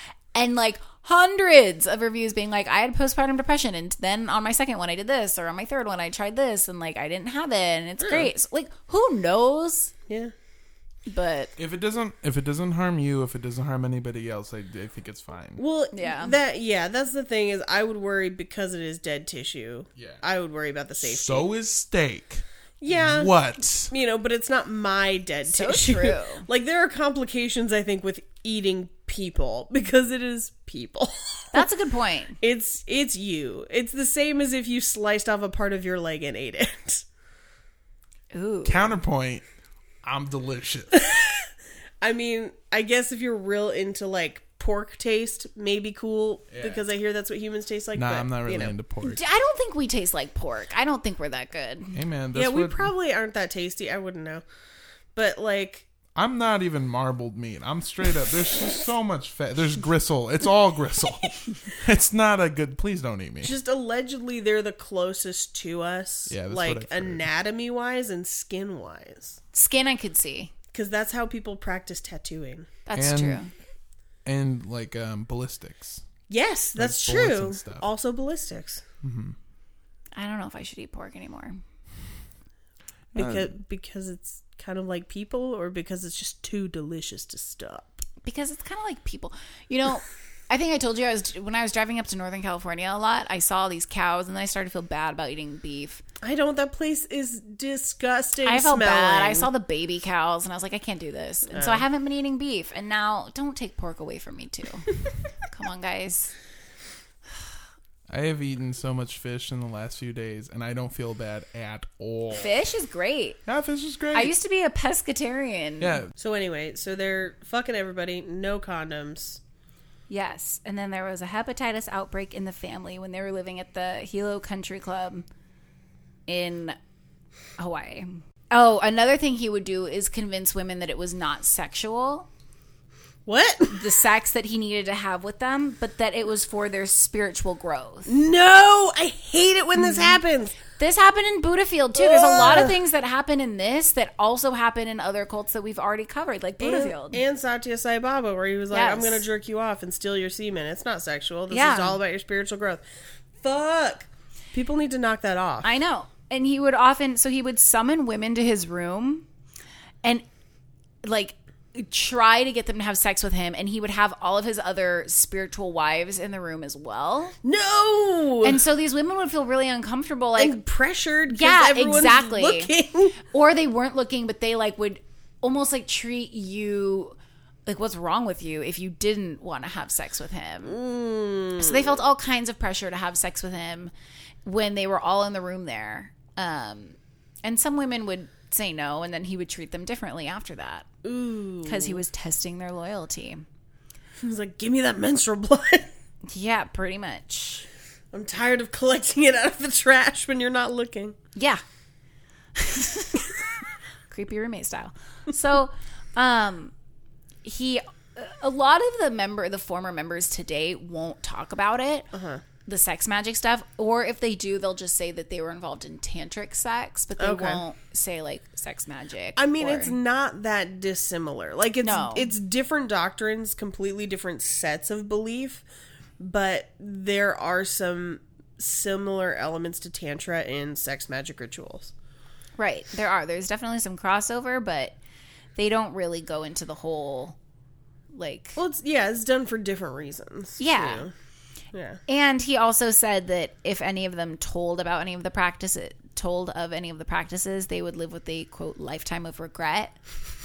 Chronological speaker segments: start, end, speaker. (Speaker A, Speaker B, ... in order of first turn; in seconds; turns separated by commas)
Speaker A: 0.3-9.9, Speaker B: 8.0-8.3, Speaker B: 10.1-10.3, Speaker A: 11.1-11.5, Speaker C: 11.6-15.6, Speaker B: 15.6-21.5, Speaker A: 15.9-16.4, Speaker C: 19.9-20.2, Speaker C: 21.0-23.9, Speaker B: 22.8-23.3, Speaker B: 23.9-31.6, Speaker A: 25.5-26.4, Speaker A: 31.5-32.4, Speaker B: 32.4-37.0, Speaker A: 38.3-39.0, Speaker C: 38.6-39.4, Speaker C: 40.0-40.9, Speaker B: 42.0-48.7, Speaker C: 46.5-46.8, Speaker C: 47.9-49.2, Speaker A: 49.0-52.0, Speaker C: 51.9-52.9, Speaker B: 52.3-54.4, Speaker B: 55.1-55.9, Speaker C: 56.1-63.5, Speaker B: 63.4-69.4, Speaker C: 66.3-67.2, Speaker A: 69.5-70.5, Speaker B: 70.7-72.7, Speaker A: 72.8-73.5, Speaker C: 72.9-73.4, Speaker C: 74.2-76.0, Speaker B: 76.3-78.8, Speaker C: 76.8-77.9, Speaker C: 79.0-79.3, Speaker A: 80.2-81.6, Speaker C: 83.1-83.5, Speaker B: 83.1-88.0, Speaker A: 88.2-96.0, Speaker B: 96.2-99.5, Speaker A: 98.4-106.3, Speaker B: 101.5-101.8, Speaker C: 108.1-112.5, Speaker A: 112.3-113.4, Speaker C: 113.5-114.3, Speaker A: 114.1-116.0, Speaker C: 115.8-116.1, Speaker B: 116.2-119.4, Speaker A: 120.1-125.2, Speaker A: 126.3-126.8, Speaker A: 127.6-132.3, Speaker B: 133.3-133.8, Speaker A: 133.7-138.1, Speaker B: 138.1-140.6, Speaker A: 139.8-140.2, Speaker A: 140.8-147.2, Speaker B: 141.9-142.8, Speaker B: 146.6-152.8, Speaker A: 148.7-149.2, Speaker A: 151.5-152.0, Speaker B: 153.4-155.7, Speaker A: 155.6-159.2, Speaker A: 161.0-167.3, Speaker B: 167.4-168.6, Speaker A: 168.4-170.6, Speaker B: 170.4-173.2, Speaker A: 171.3-177.1, Speaker A: 177.7-180.8, Speaker B: 180.6-182.0, Speaker A: 181.6-183.9, Speaker A: 184.4-190.9, Speaker B: 191.0-192.0, Speaker A: 191.6-193.4, Speaker B: 194.2-195.9, Speaker A: 196.3-197.7, Speaker B: 198.1-201.2, Speaker A: 201.3-201.6, Speaker A: 202.5-203.6, Speaker A: 204.1-206.7, Speaker A: 207.4-212.1, Speaker B: 212.1-212.4, Speaker A: 212.7-219.9, Speaker B: 217.2-217.6, Speaker B: 219.3-225.6, Speaker A: 221.8-222.3, Speaker B: 226.2-231.9, Speaker A: 232.6-234.9, Speaker A: 235.6-237.3, Speaker A: 238.1-238.6, Speaker B: 238.6-241.1, Speaker A: 240.6-241.1, Speaker B: 241.7-242.0, Speaker A: 242.1-250.0